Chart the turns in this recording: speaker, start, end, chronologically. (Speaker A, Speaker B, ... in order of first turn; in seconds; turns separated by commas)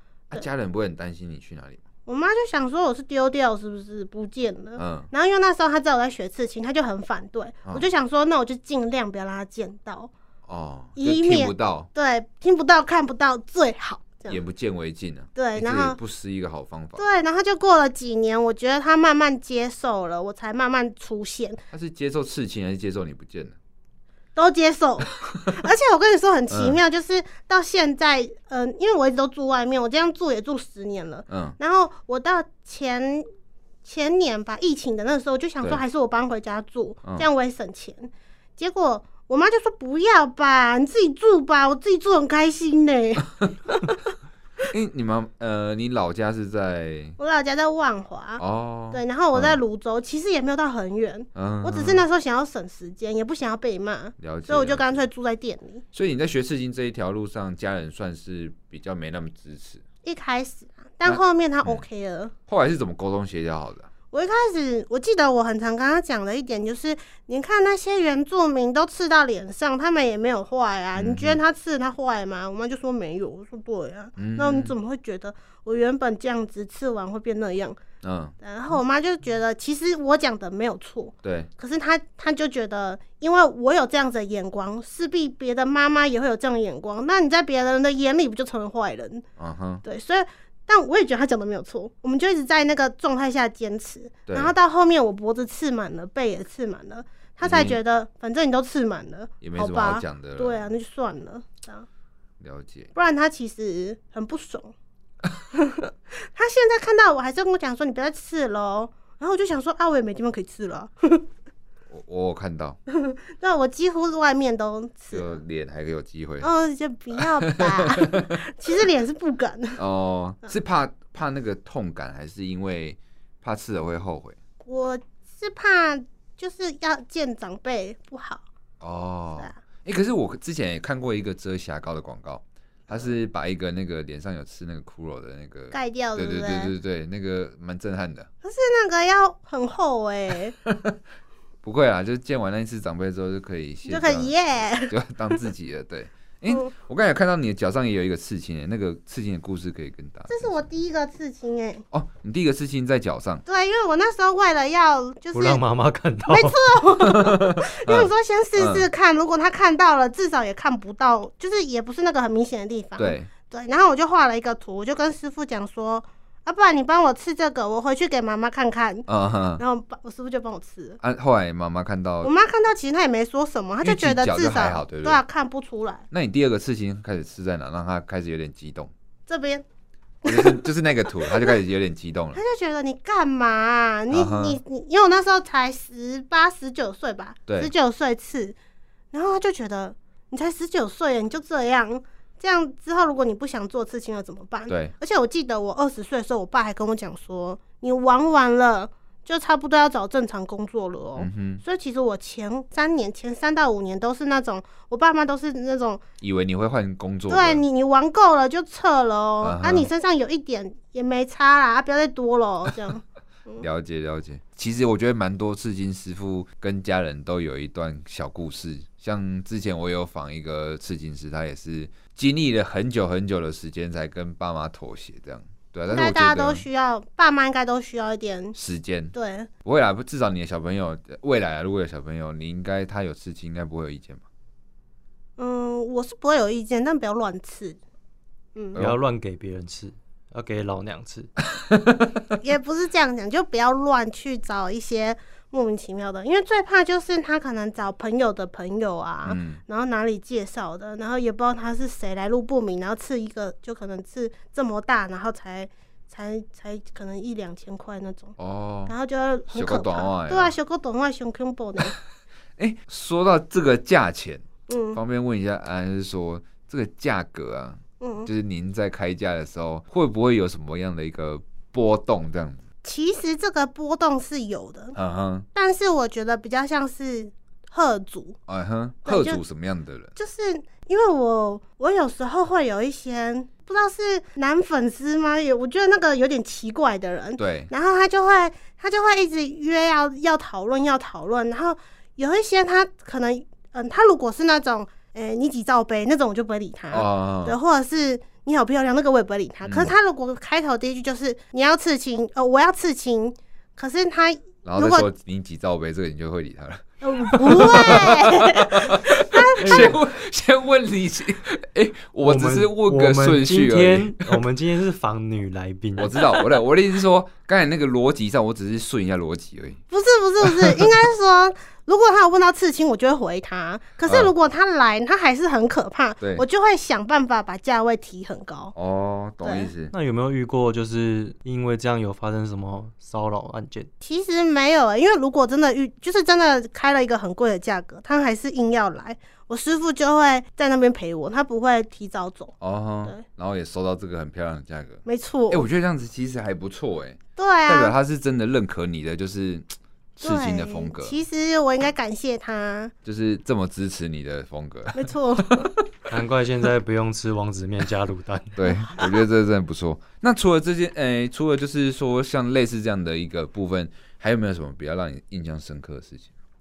Speaker A: 0.3-1.8, Speaker B: 2.0-10.1, Speaker A: 4.8-5.1, Speaker A: 10.5-11.9, Speaker B: 10.9-14.4, Speaker A: 14.3-17.0, Speaker B: 15.3-16.0, Speaker B: 17.0-21.6, Speaker A: 21.7-23.6, Speaker B: 24.4-33.3, Speaker A: 26.5-26.8, Speaker A: 31.3-31.6, Speaker B: 33.8-44.0, Speaker A: 44.7-47.2, Speaker B: 47.2-55.8, Speaker A: 48.4-49.6, Speaker A: 51.3-52.0, Speaker A: 54.2-55.0, Speaker A: 55.9-59.8, Speaker B: 60.0-62.3, Speaker A: 61.0-61.8, Speaker A: 62.5-63.9, Speaker B: 64.1-77.8, Speaker A: 71.0-71.4, Speaker A: 74.2-74.7, Speaker A: 78.0-78.3, Speaker B: 78.4-89.2, Speaker A: 81.2-81.5, Speaker A: 89.4-89.8, Speaker B: 89.8-101.9, Speaker A: 94.3-94.5, Speaker A: 97.4-97.8, Speaker A: 99.4-100.6, Speaker A: 102.4-102.9, Speaker B: 102.9-104.7, Speaker B: 105.5-111.2, Speaker A: 111.9-112.8, Speaker B: 112.9-115.4, Speaker A: 115.1-116.5, Speaker B: 116.4-119.8, Speaker A: 117.2-118.3, Speaker A: 119.8-124.4, Speaker B: 124.6-128.4, Speaker A: 128.8-138.3, Speaker B: 135.7-136.7, Speaker B: 138.4-140.6, Speaker A: 140.6-140.9, Speaker A: 141.6-144.3, Speaker B: 143.9-144.9, Speaker A: 144.9-150.5, Speaker B: 150.3-151.8, Speaker A: 151.9-153.4, Speaker B: 153.4-155.6, Speaker C: 155.3-156.6, Speaker B: 156.3-171.0, Speaker A: 157.0-158.9, Speaker A: 163.0-163.3, Speaker A: 169.1-169.6, Speaker A: 171.0-172.3, Speaker B: 172.2-176.0, Speaker A: 173.8-175.2, Speaker A: 176.1-178.9, Speaker B: 179.3-179.6, Speaker B: 180.2-180.7, Speaker A: 180.2-182.4, Speaker B: 181.2-181.5, Speaker B: 182.3-188.6, Speaker A: 184.1-184.6, Speaker A: 187.5-187.7, Speaker B: 189.1-206.0, Speaker A: 194.7-194.9, Speaker A: 201.2-201.6, Speaker A: 206.2-207.6, Speaker B: 207.3-213.7, Speaker A: 209.4-209.9, Speaker A: 213.6-226.6, Speaker B: 225.9-228.6, Speaker A: 228.5-229.1, Speaker B: 229.1-229.5, Speaker A: 229.6-234.2, Speaker B: 235.4-237.8, Speaker A: 238.7-239.0, Speaker C: 238.8-241.3, Speaker A: 241.6-242.1, Speaker B: 242.4-258.4, Speaker A: 249.2-249.6, Speaker A: 258.4-258.9, Speaker B: 258.9-261.9, Speaker A: 259.5-260.5, Speaker A: 262.6-272.6, Speaker B: 264.7-265.0, Speaker B: 268.0-268.3, Speaker B: 272.8-274.9, Speaker A: 274.9-275.5, Speaker B: 275.5-278.4, Speaker A: 278.5-280.1, Speaker B: 279.0-279.4, Speaker B: 280.1-305.1, Speaker A: 287.4-287.7, Speaker A: 296.9-297.6, Speaker A: 299.6-299.9, Speaker A: 304.6-314.4, Speaker B: 307.0-309.9, Speaker C: 309.6-310.0, Speaker C: 312.2-316.4, Speaker A: 316.0-319.8, Speaker B: 319.9-328.7, Speaker A: 320.4-320.9, Speaker A: 324.1-324.3, Speaker A: 326.2-326.4, Speaker A: 328.7-329.9, Speaker B: 329.4-329.7, Speaker C: 329.9-333.9, Speaker B: 334.0-343.2, Speaker A: 342.6-351.2, Speaker B: 345.0-345.6, Speaker B: 347.4-347.9, Speaker B: 350.2-352.9, Speaker A: 353.0-355.7, Speaker B: 354.9-355.9, Speaker C: 356.1-358.6, Speaker A: 358.6-366.3, Speaker B: 358.6-359.2